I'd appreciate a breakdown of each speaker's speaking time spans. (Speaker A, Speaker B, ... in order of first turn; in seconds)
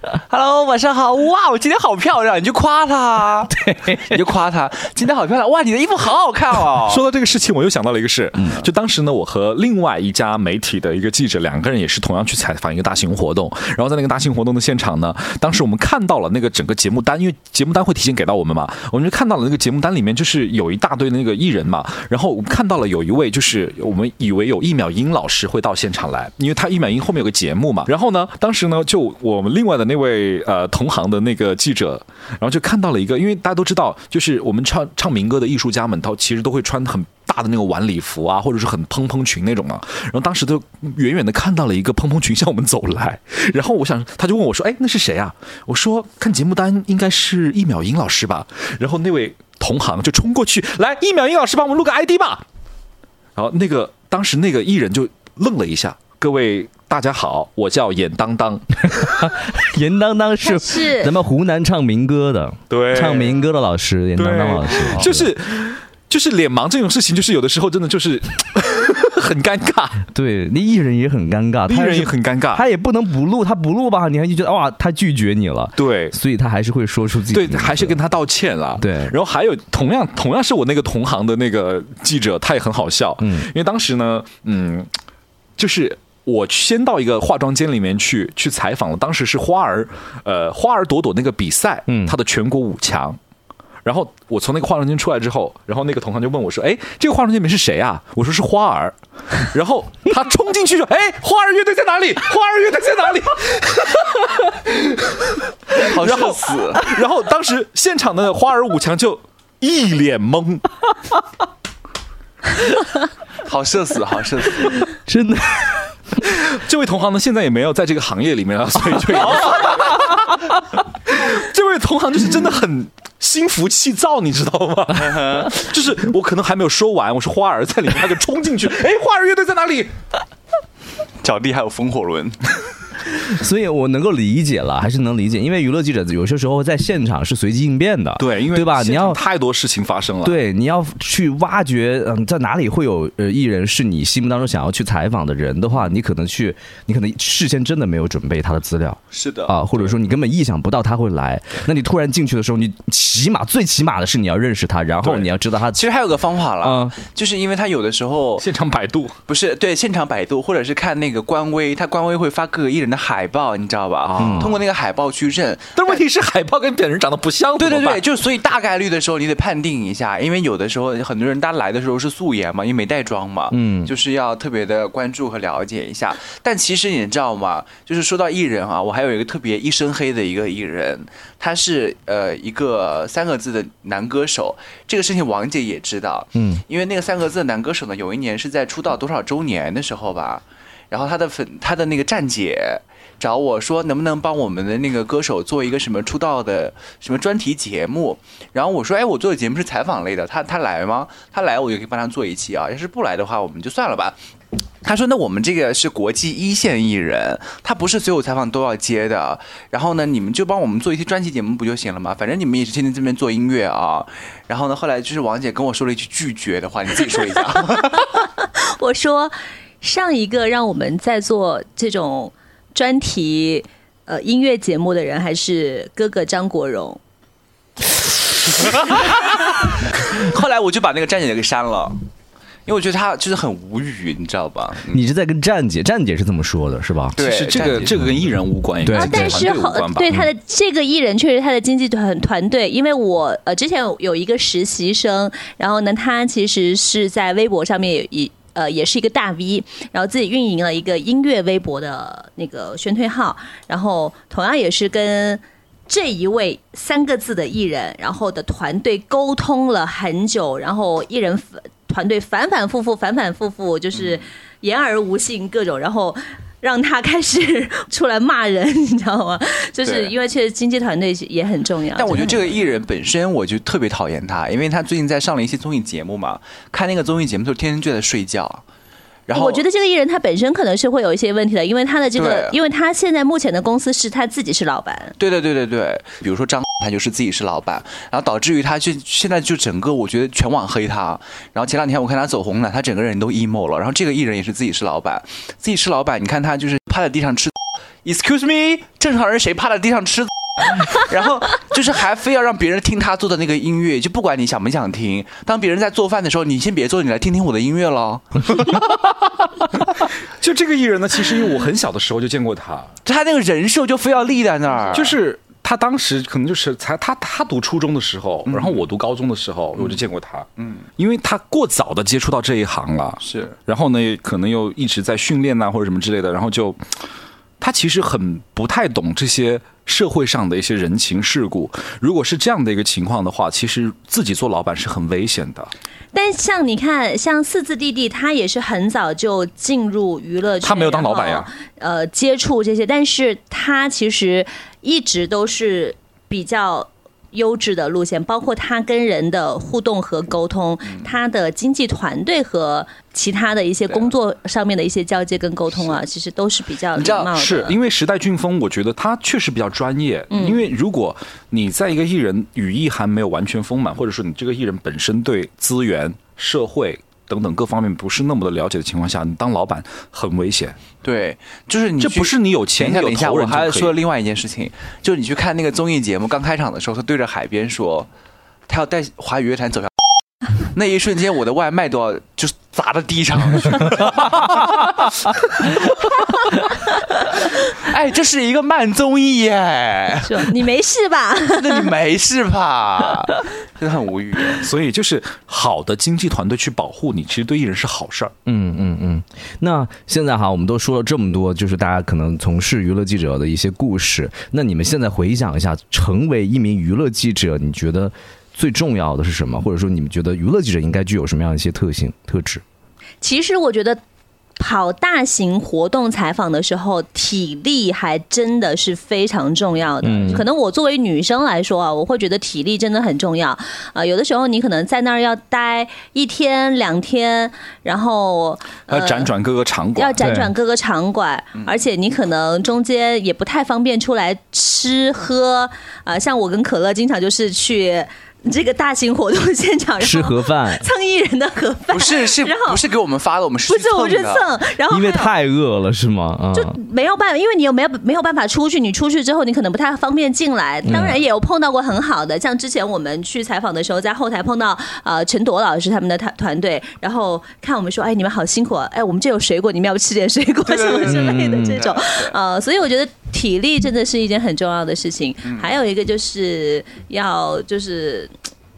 Speaker A: 0.3-7.0, 64.7-65.1, 105.8-106.9, 113.4-114.8, 125.0-125.5, 131.2-132.6, 149.1-149.9, 155.1-158.5, 159.3-166.0, 167.6-204.2, 204.8-218.2, 228.5-232.0, 232.7-235.0, 237.2-237.9, 263.9-264.2, 269.9-270.1, 272.0-278.6, 279.3-279.6, 282.2-282.6, 285.2-308.9, 313.1-315.2, 318.5-318.8, 320.6-320.8, 323.2-323.6, 356.9-357.4, 371.0-378.1, 378.7-386.5, 387.3-390.6, 391.5-394.7, 431.6-431.8, 441.9-444.5, 460.7-462.4, 465.4-465.7
Speaker B: 3.5-4.2, 59.2-65.3, 70.1-78.0, 78.8-79.1, 83.2-83.5, 91.9-92.1, 114.8-116.0, 119.2-120.1, 133.2-139.2, 140.2-155.9, 156.6-156.9, 164.2-164.6, 173.5-173.9, 186.4-186.6, 234.9-237.2, 238.8-239.5, 398.5-412.6, 420.0-420.4, 430.2-430.5, 440.0-440.9, 444.9-446.8, 450.9-451.2, 461.1-461.8
Speaker C: 6.8-52.4, 53.4-59.3, 62.7-63.4, 64.2-70.0, 71.7-72.7, 75.8-76.2, 77.3-84.9, 85.6-93.2, 93.8-110.7, 116.5-120.5, 121.1-129.9, 138.2-140.4, 158.4-159.2, 164.1-164.6, 165.8-168.0, 237.2-240.2, 310.0-312.9, 314.9-327.1, 327.6-335.7, 340.6-341.5, 357.3-370.8, 372.0-373.9, 394.6-398.3, 428.9-430.2
Speaker D: 60.4-61.1, 218.4-227.0, 238.9-272.5, 279.3-285.2, 336.1-357.7, 360.3-360.6, 390.2-391.9, 413.2-414.0, 414.6-429.3, 430.0-442.8, 443.7-445.3, 446.5-468.3